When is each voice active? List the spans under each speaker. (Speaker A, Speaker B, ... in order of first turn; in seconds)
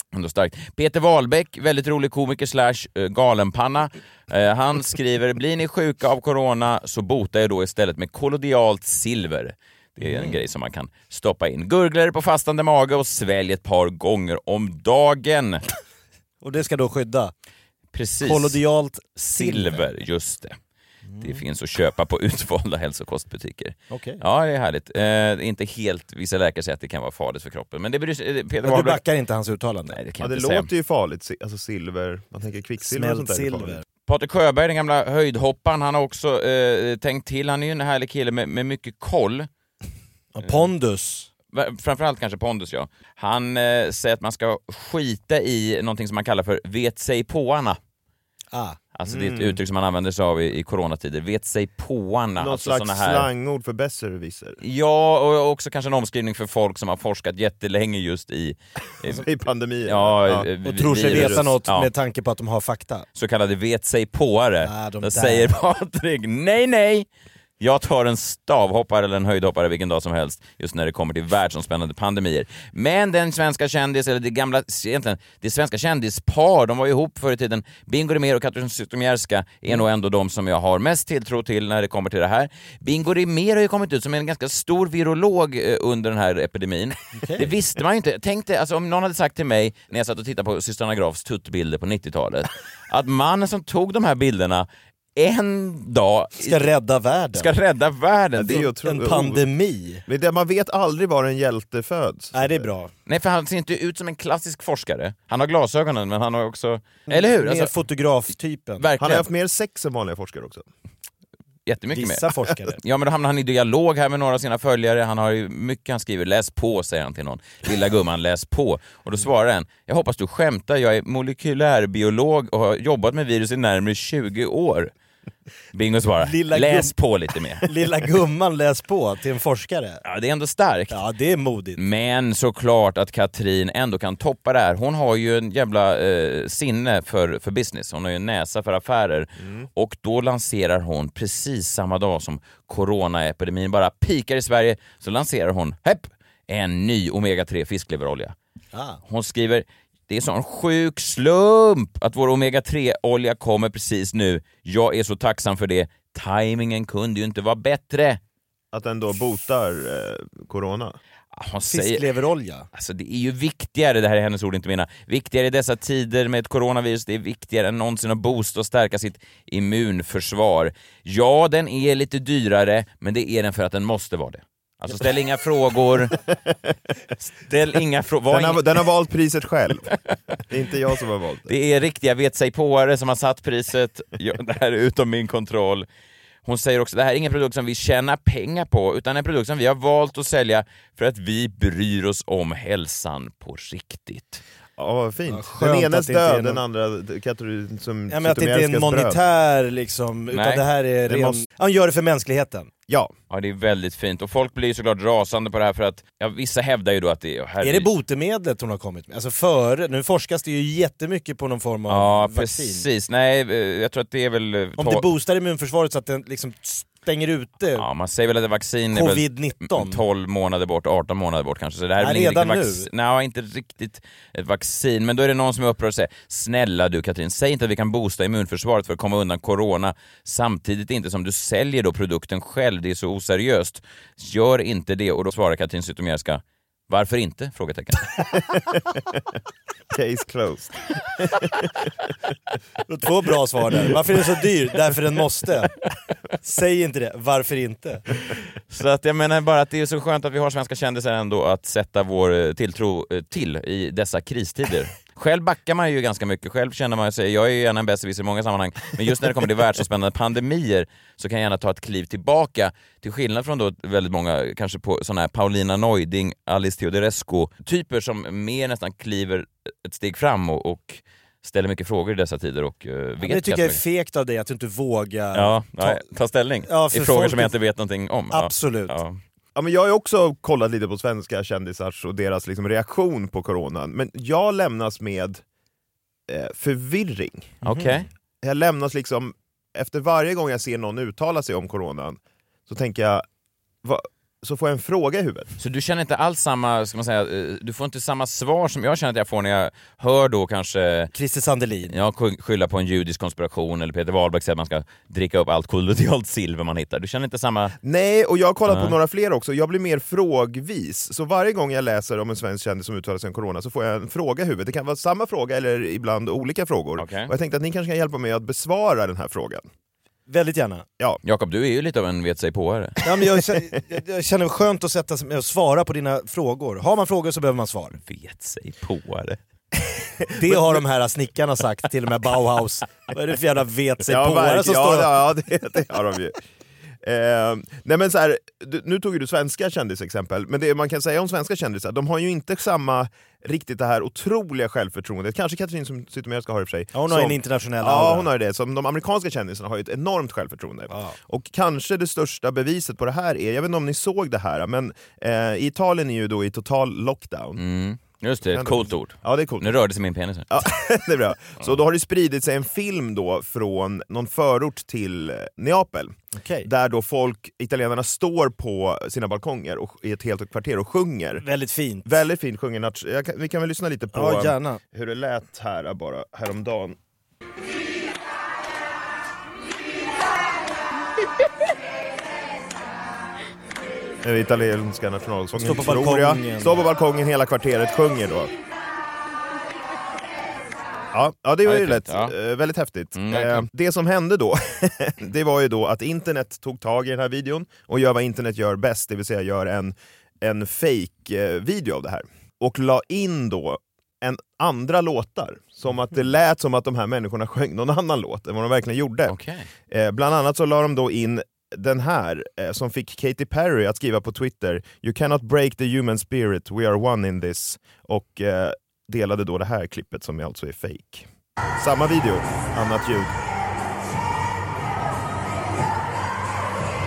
Speaker A: 0.1-15.6, 17.9-18.6, 19.2-20.6, 21.2-29.0, 29.9-30.7, 34.1-39.5, 41.5-47.8, 49.0-53.3, 54.6-59.2, 59.9-61.9, 63.1-67.1, 67.6-96.7, 97.3-98.7, 103.1-107.7, 108.8-109.3, 111.7-124.9, 125.7-127.7, 130.0-131.0, 131.8-148.3, 149.1-158.2, 161.3-162.1, 162.7-176.2, 177.4-178.8, 181.5-185.9, 186.4-194.4, 200.3-200.7, 203.3-207.9, 211.9-215.1, 217.8-238.1, 248.7-273.8, 275.3-279.2, 287.6-288.1, 295.6-301.1, 301.9-307.8, 308.7-309.0, 317.0-317.3, 321.2-323.0, 328.0-329.4, 357.6-360.5, 391.6-392.3, 393.2-393.7, 409.3-409.7
Speaker B: 10.0-10.4, 16.4-17.3, 18.2-19.8, 21.1-21.4, 23.9-24.2, 28.6-30.0, 32.8-33.8, 40.3-41.3, 48.5-48.8, 60.6-63.1, 64.6-65.5, 87.2-87.5, 96.4-97.5, 98.8-100.0, 102.3-102.9, 107.1-108.9, 111.9-112.8, 126.2-126.9, 127.6-130.0, 130.9-131.8, 148.7-149.0, 161.7-162.7, 195.3-196.6, 198.1-202.7, 207.6-212.8, 214.8-217.8, 218.9-220.0, 222.0-222.9, 242.9-245.7, 246.4-248.0, 273.2-276.0, 276.7-277.5, 278.3-279.0, 287.6-287.9, 301.1-301.9, 320.3-320.9, 323.0-328.0, 330.3-335.2, 346.9-348.3, 350.9-351.2, 366.4-366.7, 371.4-372.1, 374.1-374.8, 385.6-386.8
Speaker C: 30.2-33.8, 49.1-49.6, 52.4-54.6, 59.0-60.5, 61.0-61.5, 98.4-99.5, 100.1-102.7, 109.0-110.7, 158.7-161.0, 178.3-179.9, 180.5-181.5, 194.8-199.2, 201.1-201.4, 202.9-203.1, 238.6-239.2, 239.9-241.9, 279.6-285.4, 286.3-287.6, 288.4-293.2, 293.8-295.5, 307.8-319.7, 334.1-336.4, 337.0-357.6, 358.5-359.7, 360.5-371.4, 372.1-377.0, 384.2-388.5, 391.1-409.4, 409.9-423.3